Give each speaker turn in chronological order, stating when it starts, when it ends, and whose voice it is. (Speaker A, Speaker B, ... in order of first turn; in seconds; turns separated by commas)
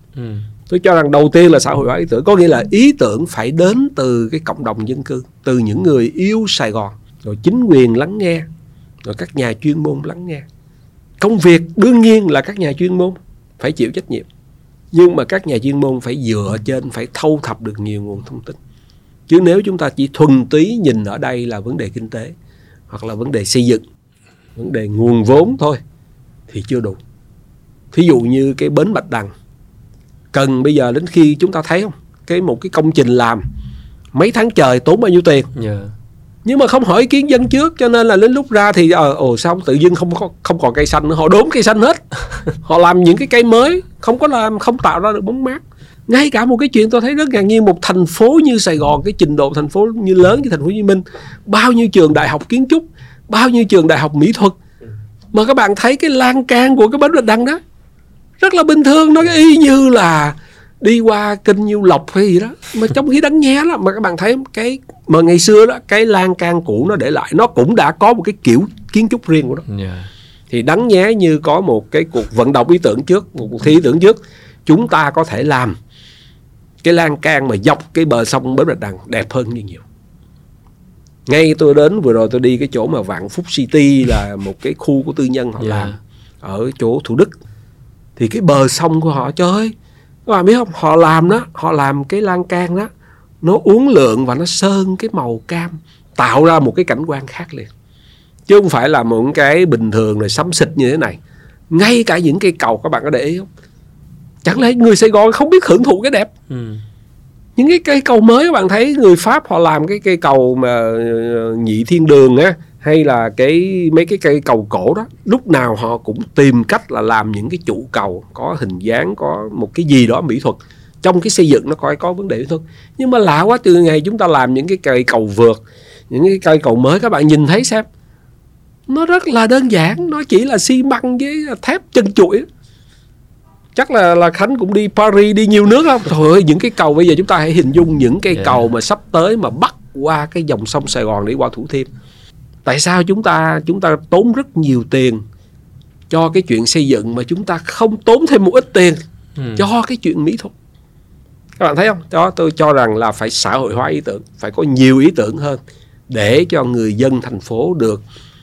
Speaker A: 0.1-0.5, Speaker B: 0.7-8.5, Speaker B: 9.0-10.4, Speaker B: 11.2-14.3, Speaker B: 14.9-18.6, Speaker B: 19.3-22.3, Speaker B: 22.9-23.8, Speaker B: 24.6-25.8, Speaker B: 26.5-27.0, Speaker B: 27.9-29.3, Speaker B: 30.3-33.4, Speaker B: 34.1-35.5, Speaker A: 35.5-35.9, Speaker B: 36.4-54.6, Speaker B: 55.3-57.6, Speaker B: 58.4-69.6, Speaker A: 69.7-70.1, Speaker B: 70.5-75.8, Speaker B: 76.8-79.8, Speaker B: 81.3-87.4, Speaker A: 85.6-85.9, Speaker B: 88.2-89.7, Speaker B: 90.2-92.9, Speaker B: 93.4-97.7, Speaker B: 98.5-101.2, Speaker B: 101.7-103.5, Speaker B: 104.4-106.3, Speaker A: 106.5-106.8, Speaker B: 107.6-127.8, Speaker B: 128.9-132.4, Speaker B: 133.8-141.9, Speaker A: 138.4-138.6, Speaker B: 142.7-145.2, Speaker B: 146.1-149.0, Speaker A: 149.3-149.6, Speaker B: 149.6-150.5, Speaker B: 151.6-158.0